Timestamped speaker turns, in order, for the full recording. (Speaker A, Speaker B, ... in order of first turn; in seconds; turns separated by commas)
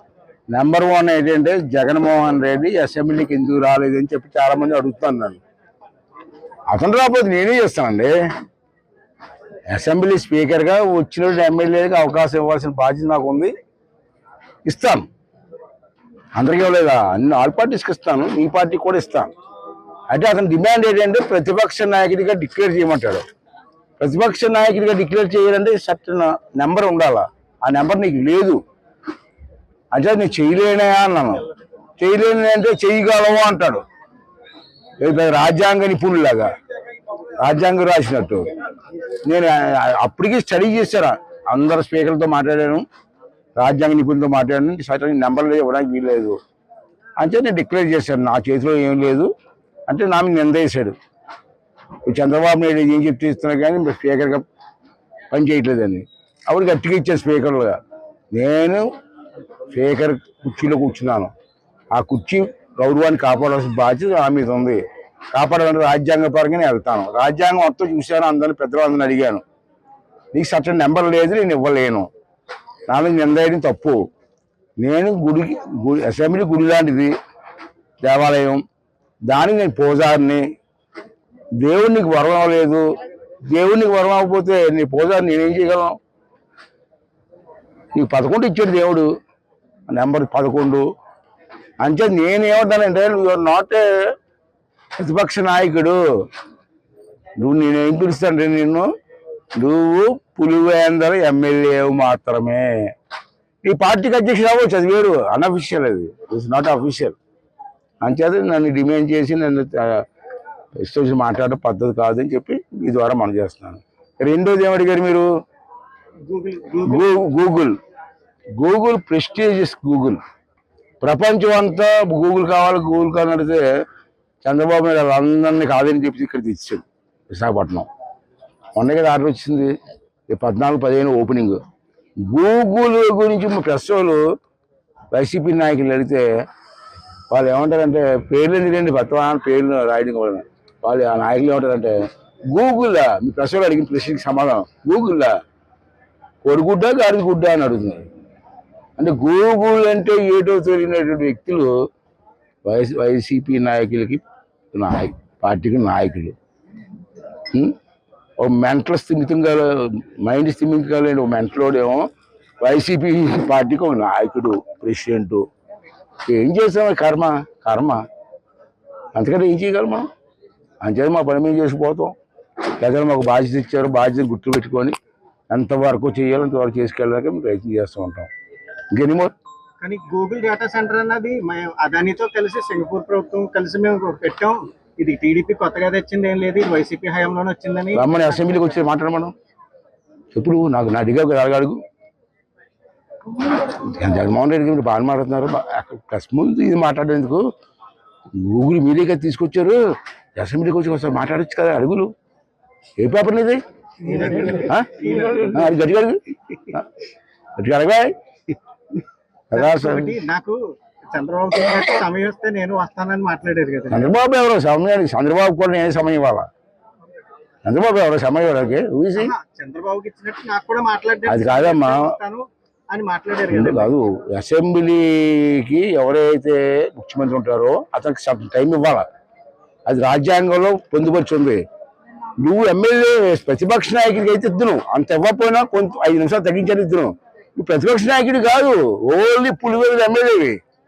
Speaker A: 0.5-5.4, Speaker A: 6.7-8.1, Speaker A: 9.7-13.5, Speaker A: 14.7-15.1, Speaker A: 16.4-19.3, Speaker A: 20.1-23.2, Speaker A: 24.0-28.6, Speaker A: 29.9-31.5, Speaker A: 32.0-33.8, Speaker A: 35.0-36.5, Speaker A: 37.4-38.5, Speaker A: 39.2-42.9, Speaker A: 43.6-46.4, Speaker A: 47.2-49.3, Speaker A: 49.9-51.0, Speaker A: 52.1-54.5, Speaker A: 55.3-57.8, Speaker A: 58.3-58.9, Speaker A: 59.7-61.3, Speaker A: 61.9-64.8, Speaker A: 65.3-69.4, Speaker A: 70.3-72.1, Speaker A: 72.9-74.0, Speaker A: 74.8-77.1, Speaker A: 78.0-78.6, Speaker A: 79.3-80.4, Speaker A: 81.6-82.8, Speaker A: 83.5-86.0, Speaker A: 88.0-89.1, Speaker A: 89.9-90.8, Speaker A: 91.8-93.9, Speaker A: 95.0-96.0, Speaker A: 97.4-98.9, Speaker A: 99.6-102.7, Speaker A: 103.7-107.2, Speaker A: 108.0-110.0, Speaker A: 110.8-115.3, Speaker B: 116.3-117.1, Speaker A: 116.8-117.8, Speaker A: 118.6-120.2, Speaker A: 121.0-123.6, Speaker A: 124.4-127.9, Speaker A: 128.8-129.7, Speaker A: 130.3-131.6, Speaker A: 132.3-134.2, Speaker A: 135.1-136.2, Speaker A: 137.3-141.9, Speaker A: 142.5-145.3, Speaker A: 146.4-148.1, Speaker A: 149.0-151.7, Speaker A: 152.7-156.3, Speaker A: 157.5-157.8, Speaker A: 158.4-162.1, Speaker A: 162.6-165.5, Speaker A: 166.3-168.0, Speaker A: 169.2-170.1, Speaker A: 170.8-172.1, Speaker A: 172.8-174.9, Speaker A: 175.5-178.3, Speaker A: 178.9-179.3, Speaker B: 179.8-188.4, Speaker A: 187.9-189.3, Speaker A: 190.3-191.8, Speaker A: 193.9-197.4, Speaker A: 198.4-199.8, Speaker A: 200.4-202.1, Speaker A: 203.0-203.6, Speaker B: 204.0-205.8, Speaker A: 204.5-206.9, Speaker A: 207.6-208.1, Speaker A: 209.5-210.2, Speaker B: 209.5-210.6, Speaker B: 211.1-214.0, Speaker A: 213.9-216.5, Speaker A: 217.7-219.3, Speaker B: 219.2-223.9, Speaker A: 221.3-222.1, Speaker A: 223.5-229.1, Speaker A: 229.9-231.6, Speaker A: 232.4-240.6